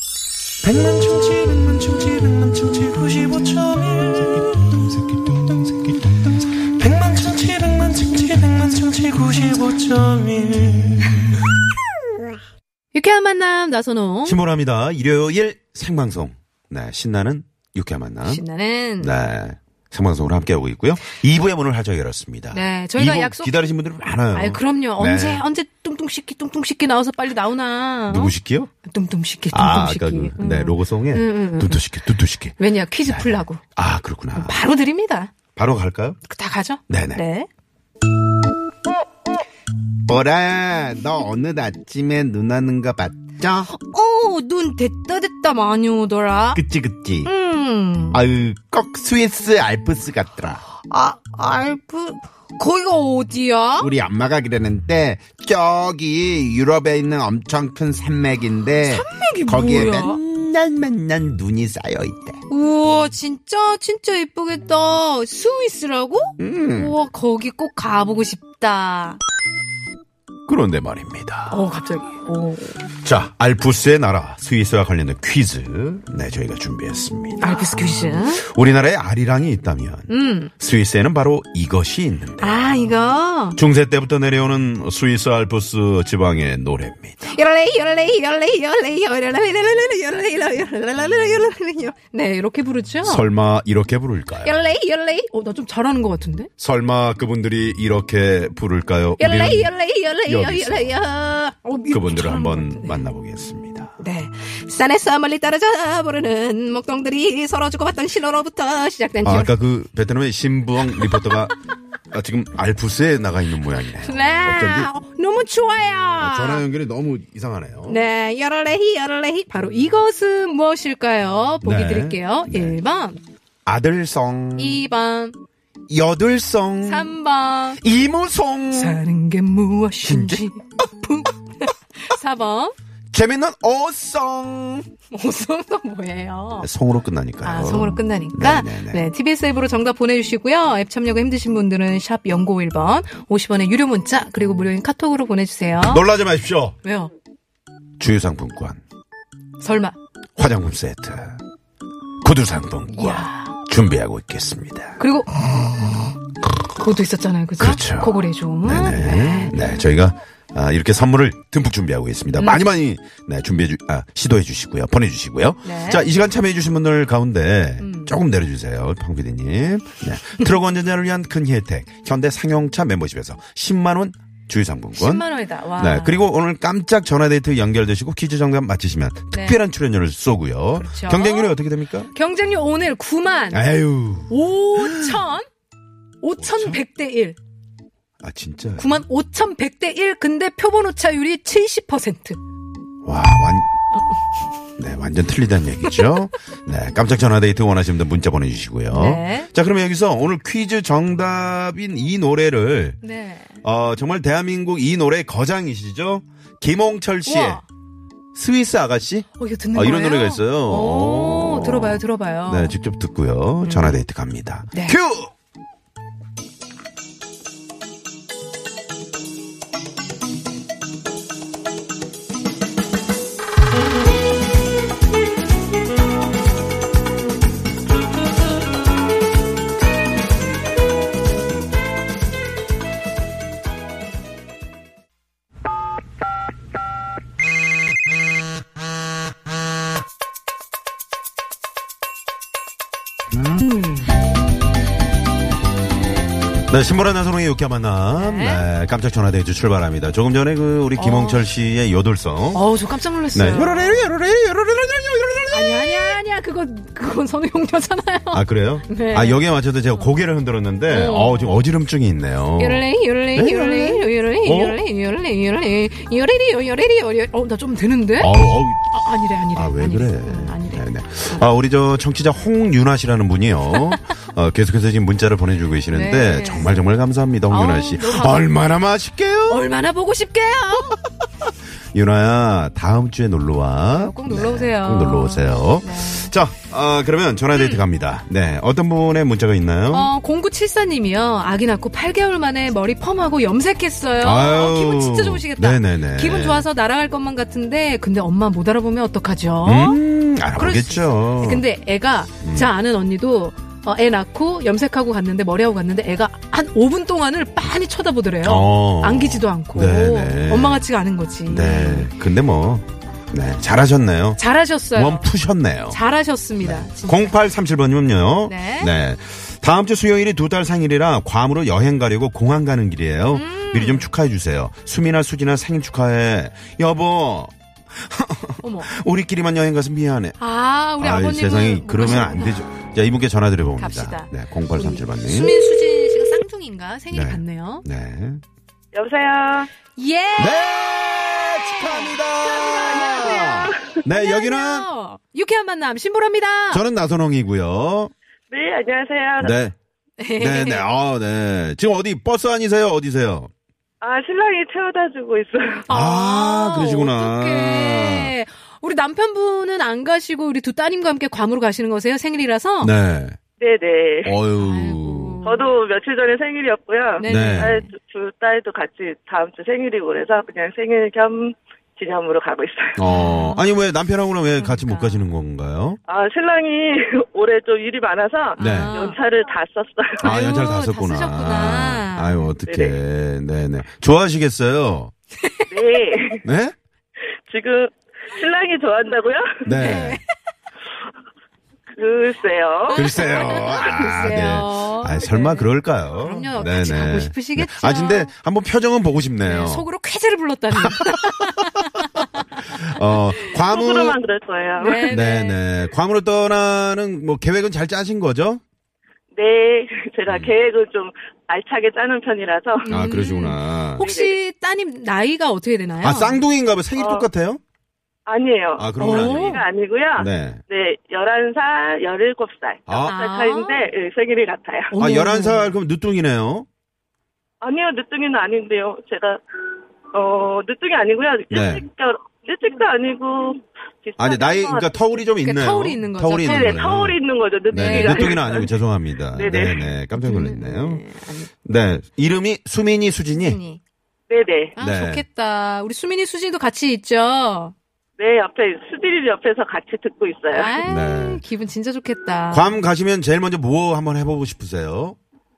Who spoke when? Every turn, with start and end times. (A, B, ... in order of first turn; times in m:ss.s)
0:00.7-0:04.4 A
0:06.8-0:10.9 A
0:12.9-0:14.4 B
0:14.2-0:18.4 C
0:18.2-0:19.1 B
0:19.0-0:25.4 C
0:22.5-0:23.6 B
0:24.3-0:31.9 B
0:28.1-0:28.7 C
0:29.5-0:34.6 C
0:32.6-0:33.6 B
0:34.3-0:35.3 B
0:35.6-0:36.2 C
0:36.2-0:37.5 B
0:36.9-0:37.2 C
0:40.1-0:43.7 C
0:43.7-0:46.6 B
0:46.5-0:47.3 C
0:47.2-0:48.2 B
0:48.1-0:50.6 C
0:50.9-0:53.9 B
0:53.8-1:02.4 C
0:58.8-1:00.2 B
1:02.5-1:09.2 B
1:06.4-1:07.0 C
1:10.5-1:11.6 C
1:11.5-1:12.8 B
1:13.0-1:22.7 C
1:17.4-1:18.4 B
1:20.1-1:20.5 B
1:22.4-1:23.6 B
1:23.6-1:27.4 C
1:27.2-1:33.3 B
1:33.0-1:34.6 C
1:34.4-1:36.5 B
1:36.6-1:39.7 C
1:39.2-1:43.0 B
1:40.2-1:41.0 C
1:41.9-1:43.9 C
1:44.0-1:49.5 B
1:49.2-1:51.6 C
1:50.8-1:51.4 B
1:52.1-1:54.9 C
1:54.0-1:56.6 B
1:56.2-1:58.0 C
1:57.8-2:03.2 B
2:01.6-2:02.8 C
2:03.6-2:04.8 C
2:04.6-2:05.4 B
2:05.9-2:07.1 C
2:06.8-2:07.8 B
2:07.8-2:09.0 C
2:08.7-2:12.7 B
2:10.0-2:10.4 C
2:13.1-2:14.9 C
2:15.1-2:16.7 B
2:16.6-2:19.0 C
2:17.4-2:26.0 B
2:25.8-2:26.7 C
2:26.8-2:27.1 B
2:28.0-2:28.8 C
2:29.6-2:30.0 B
2:30.4-2:31.4 C
2:32.2-2:35.0 C
2:32.9-2:33.5 B
2:35.0-2:35.3 B
2:36.8-2:39.8 B
2:37.6-2:55.2 C
2:42.4-2:42.6 B
2:45.6-2:46.0 B
2:47.8-2:48.2 B
2:54.9-2:56.2 B
2:55.8-3:02.1 C
2:59.3-2:59.6 B
3:00.8-3:01.6 B
3:02.1-3:03.6 B
3:03.5-3:05.2 C
3:04.3-3:05.5 B
3:06.2-3:07.4 B
3:06.4-3:06.8 C
3:08.2-3:09.0 C
3:08.8-3:12.4 B
3:13.0-3:13.7 C
3:14.8-3:23.0 C
3:15.8-3:16.1 B
3:18.9-3:19.5 B
3:23.0-3:23.6 B
3:23.6-3:27.6 C
3:27.2-3:27.6 B
3:28.3-3:35.3 C
3:29.4-3:32.7 B
3:33.6-3:34.0 B
3:34.7-3:35.0 B
4:06.7-4:12.7 C
4:08.1-4:08.7 B
4:11.0-4:11.4 B
4:12.5-4:14.1 B
4:13.3-4:16.2 C
4:15.5-4:19.4 B
4:18.3-4:24.8 C
4:20.9-4:21.6 B
4:22.6-4:31.4 B
4:28.2-4:39.7 C
4:35.9-4:36.8 B
4:37.5-4:38.5 B
4:39.5-4:41.0 B
4:41.9-4:50.1 C
4:43.9-4:46.3 B
4:47.5-4:47.8 B
4:49.9-5:00.0 B
4:54.2-4:56.7 C
4:59.6-5:01.6 C
5:00.5-5:12.1 B
5:02.4-5:02.7 C
5:08.4-5:10.8 C
5:11.5-5:14.4 C
5:14.4-5:15.3 B
5:14.9-5:16.0 C
5:15.9-5:17.4 B
5:16.6-5:30.4 C
5:18.4-5:18.9 B
5:23.3-5:24.1 B
5:28.6-5:28.9 B
5:30.4-5:32.6 B
5:31.0-5:35.6 C
5:33.8-5:37.8 B
5:37.1-5:38.4 C
5:38.9-5:39.7 D
5:39.9-5:42.2 B
5:40.4-5:44.9 C
5:42.4-5:43.9 D
5:43.1-5:46.8 B
5:46.7-5:48.1 C
5:48.5-5:49.6 D
5:49.4-5:49.7 C
5:50.2-5:50.9 B
5:50.4-5:53.5 C
5:54.0-5:55.9 D
5:55.9-6:02.9 B
5:55.9-5:58.3 C
6:02.8-6:03.4 C
6:03.6-6:04.4 D
6:04.2-6:05.4 C
6:04.5-6:05.7 B
6:05.4-6:13.0 D
6:07.2-6:07.9 B
6:07.2-6:07.8 C
6:13.0-6:16.0 C
6:13.0-6:13.7 B
6:14.5-6:15.3 B
6:16.1-6:20.3 D
6:18.6-6:19.2 B
6:18.6-6:19.0 C
6:20.2-6:25.1 C
6:20.2-6:22.5 B
6:22.7-6:23.0 D
6:25.4-6:26.0 B
6:25.7-6:26.4 D
6:26.4-6:26.7 C
6:27.5-6:29.6 D
6:29.6-6:30.2 C
6:29.7-6:30.3 B
6:31.9-6:33.8 D
6:32.9-6:38.3 B
6:32.9-6:39.9 C
6:39.4-6:42.7 B
6:40.7-6:41.6 C
6:42.6-6:44.2 C
6:43.5-6:45.1 D
6:44.8-6:45.6 B
6:45.1-6:48.6 C
6:49.3-6:52.9 D
6:50.3-6:50.5 C
6:52.8-6:56.4 B
6:52.9-6:54.0 C
6:54.0-6:54.4 D
6:56.0-6:57.6 C
6:57.0-6:57.2 D
6:58.2-7:05.0 D
6:58.8-6:59.6 C
6:59.0-6:59.6 B
7:00.2-7:00.6 C
7:02.9-7:03.2 C
7:03.0-7:03.9 B
7:04.9-7:05.8 B
7:04.9-7:06.6 C
7:07.6-7:09.4 D
7:10.1-7:15.2 D
7:11.5-7:11.8 C
7:14.2-7:17.2 C
7:15.4-7:16.8 B
7:16.4-7:18.7 D
7:17.7-7:21.0 C
7:17.7-7:18.4 B
7:19.3-7:19.9 D
7:20.2-7:21.5 B
7:21.6-7:23.6 C
7:23.4-7:23.8 B
7:24.3-7:24.8 D
7:24.8-7:27.7 B
7:24.8-7:25.2 C
7:28.2-7:30.8 D
7:30.5-7:32.8 B
7:30.8-7:31.4 C
7:32.5-7:35.2 C